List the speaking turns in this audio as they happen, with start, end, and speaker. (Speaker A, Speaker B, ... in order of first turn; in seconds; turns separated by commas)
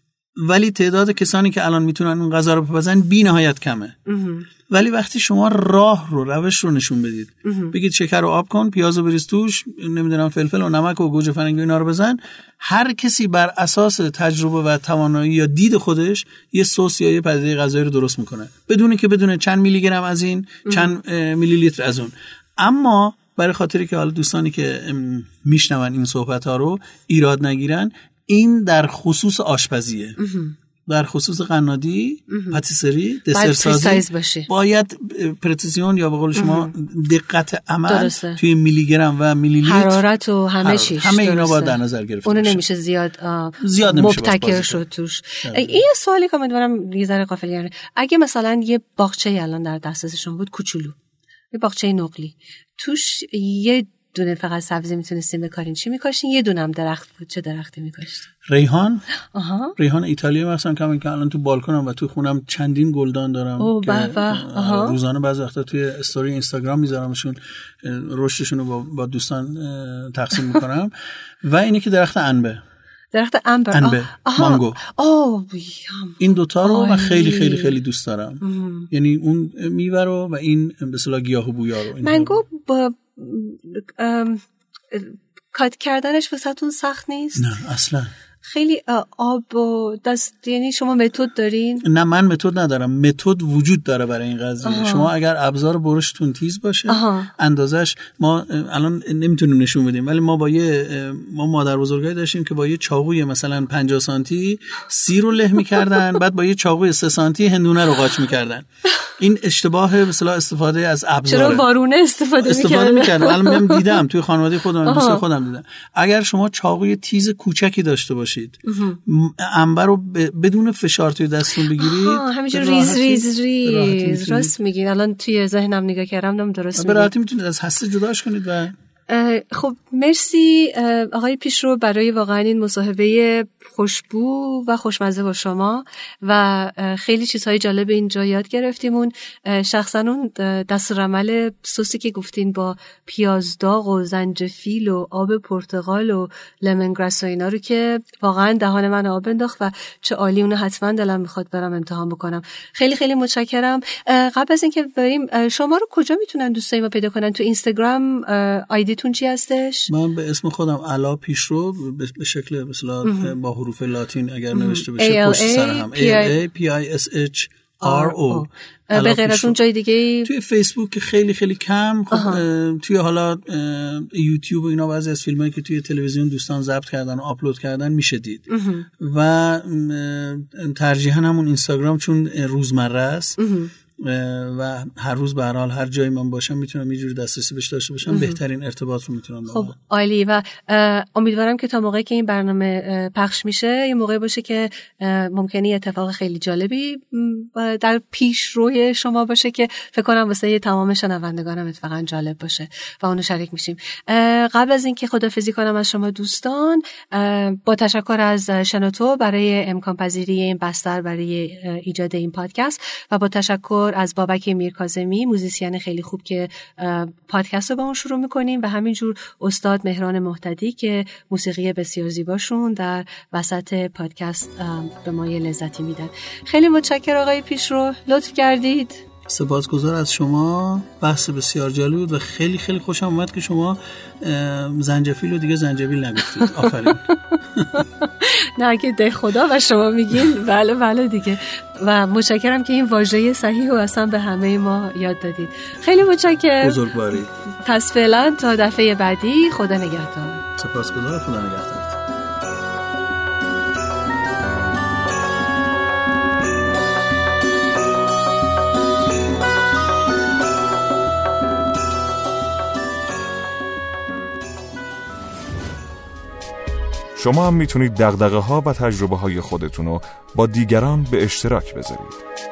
Speaker A: 0.4-4.0, Speaker B: 4.1-4.5, Speaker A: 4.7-30.2, Speaker B: 7.5-7.7, Speaker B: 20.7-20.9, Speaker B: 30.2-30.6, Speaker A: 30.9-40.0, Speaker B: 32.3-32.6, Speaker B: 33.3-34.5, Speaker B: 36.4-36.7, Speaker B: 37.9-38.4, Speaker B: 39.6-51.0, Speaker A: 40.6-42.6, Speaker A: 43.6-44.8, Speaker A: 45.4-45.8, Speaker B: 51.5-58.3, Speaker A: 58.5-59.1, Speaker B: 59.3-59.8, Speaker A: 59.8-70.9, Speaker B: 63.6-65.0, Speaker A: 71.4-72.6, Speaker B: 73.1-77.8, Speaker A: 73.7-74.8, Speaker A: 76.2-82.4, Speaker B: 78.4-78.9, Speaker B: 82.0-87.5, Speaker A: 87.4-88.1, Speaker B: 88.4-91.8, Speaker A: 91.8-111.7, Speaker B: 94.6-95.1, Speaker B: 96.9-97.3, Speaker B: 111.3-114.0, Speaker A: 112.4-124.5, Speaker B: 114.8-115.2, Speaker B: 118.7-119.0, Speaker B: 121.8-127.1, Speaker A: 126.8-128.7, Speaker B: 129.1-159.9, Speaker A: 159.9-169.6, Speaker B: 163.0-163.3, Speaker B: 164.5-166.3, Speaker B: 167.8-170.3, Speaker A: 170.2-183.4, Speaker B: 172.1-172.4, Speaker B: 178.5-178.9, Speaker B: 183.4-183.7, Speaker A: 184.0-189.8, Speaker B: 188.1-188.4, Speaker B: 189.5-229.1, Speaker A: 229.3-237.8, Speaker B: 236.5-236.7, Speaker B: 237.8-246.8, Speaker A: 246.6-247.3, Speaker B: 247.5-250.4, Speaker A: 250.6-252.0, Speaker C: 267.2-272.2